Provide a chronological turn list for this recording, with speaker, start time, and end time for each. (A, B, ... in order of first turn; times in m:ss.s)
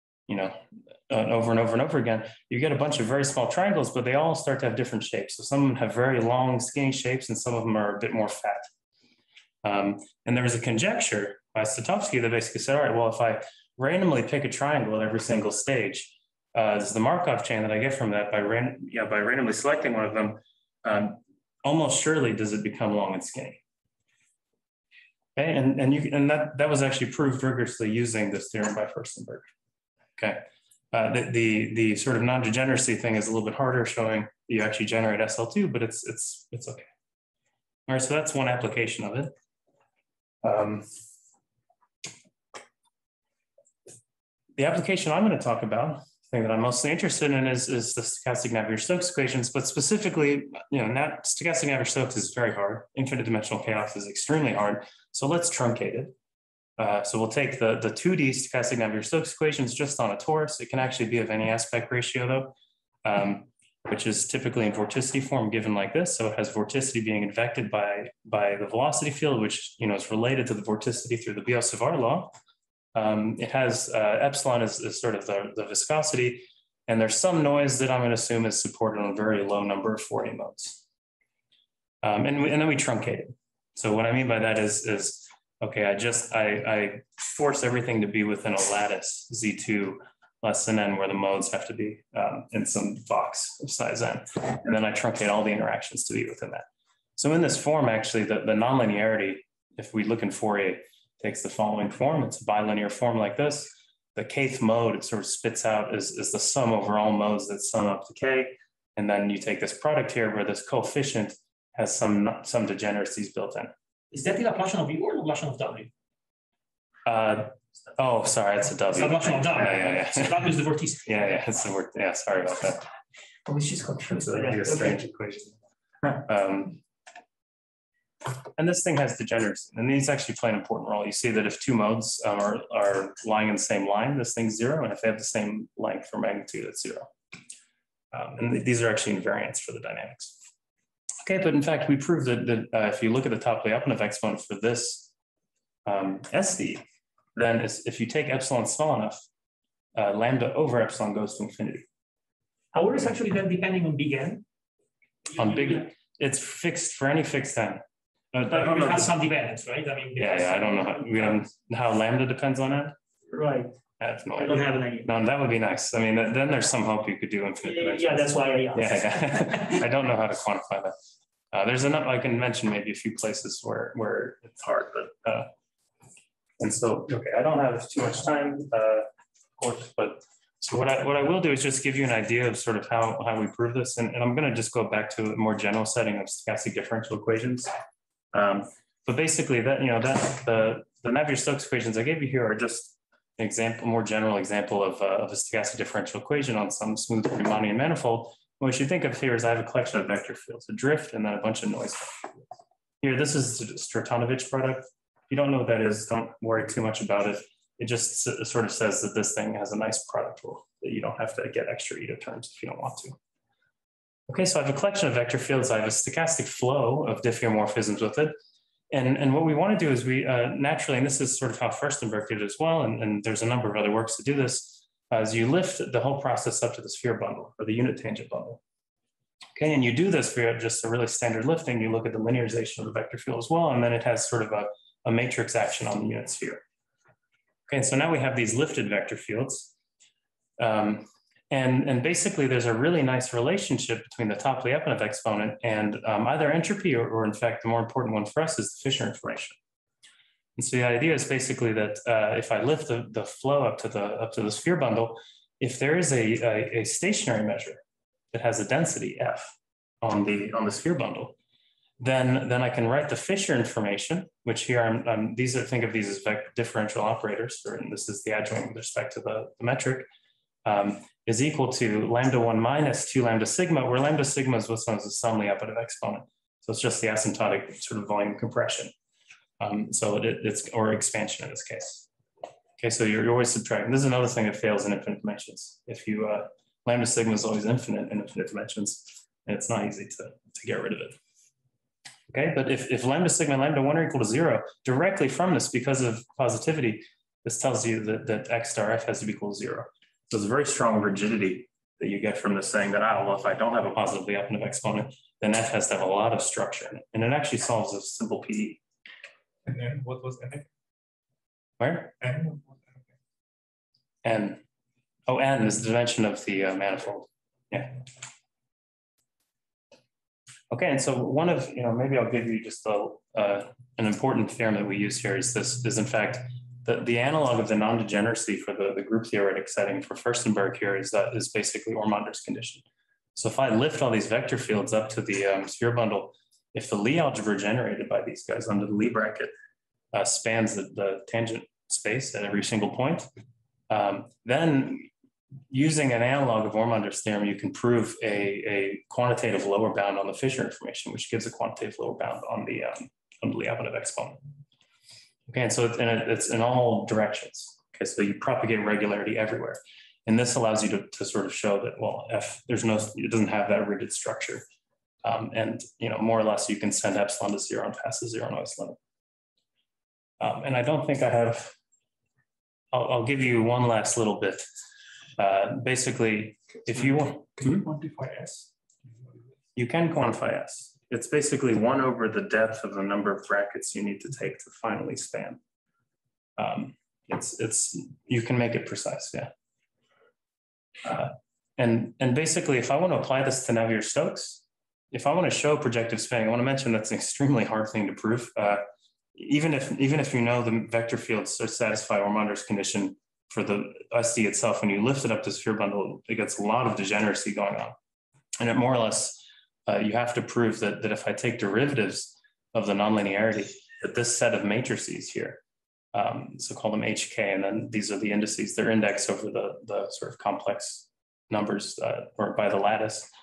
0:00.3-0:08.7 A
0:09.6-0:23.6 A
0:25.4-0:29.5 A
0:30.2-0:36.9 A
0:37.9-0:39.3 A
0:40.4-0:40.9 A
0:44.6-0:56.1 A
0:56.8-1:12.3 A
1:12.9-1:20.8 A
1:22.0-1:36.6 A
1:37.2-1:53.7 A
1:54.1-1:55.9 B
1:57.0-2:00.5 A
1:58.9-2:01.3 B
2:01.0-2:02.9 A
2:03.4-2:05.4 B
2:04.1-2:05.4 A
2:06.0-2:06.8 A
2:08.6-2:17.1 A
2:18.1-2:20.4 A
2:21.2-2:25.1 A
2:25.8-2:26.8 A
2:27.3-2:29.2 A
2:30.0-2:31.8 A
2:32.7-2:34.4 B
2:35.3-2:35.8 B
2:35.3-2:37.8 A
2:38.3-2:39.1 A
2:38.5-2:41.4 B
2:40.2-2:42.9 A
2:43.3-2:43.7 B
2:44.0-2:50.9 A
2:44.4-2:45.1 B
2:47.6-2:49.8 B
2:51.5-2:55.5 A
2:56.6-2:59.1 A
2:59.6-3:07.7 A
3:08.3-3:22.4 A
3:23.0-3:33.2 A
3:34.3-3:38.3 A
3:38.9-3:48.6 A
3:49.6-3:56.6 A
3:57.7-3:59.7 A
4:00.6-4:09.6 A
4:10.6-4:17.8 A
4:18.3-4:21.4 A
4:22.0-4:30.1 A
4:30.6-4:38.9 A
4:39.6-4:42.1 A
4:42.8-4:51.2 A
4:52.3-5:08.8 A
5:09.6-5:10.7 C
5:11.8-5:12.1 A
5:12.2-5:13.1 C
5:14.2-5:14.6 A
5:15.3-5:18.0 A
5:20.7-5:32.8 A
5:33.4-5:39.5 A
5:40.1-5:43.3 A
5:43.9-5:45.1 A
5:45.7-5:54.4 A
5:55.5-6:04.6 A
6:05.2-6:09.0 A
6:10.4-6:11.8 A
6:12.9-6:14.6 A
6:15.4-6:17.9 A
6:16.9-6:19.3 C
6:19.8-6:25.6 A
6:26.6-6:29.5 A
6:31.0-6:48.0 A
6:48.6-6:55.6 A
6:56.1-7:03.3 A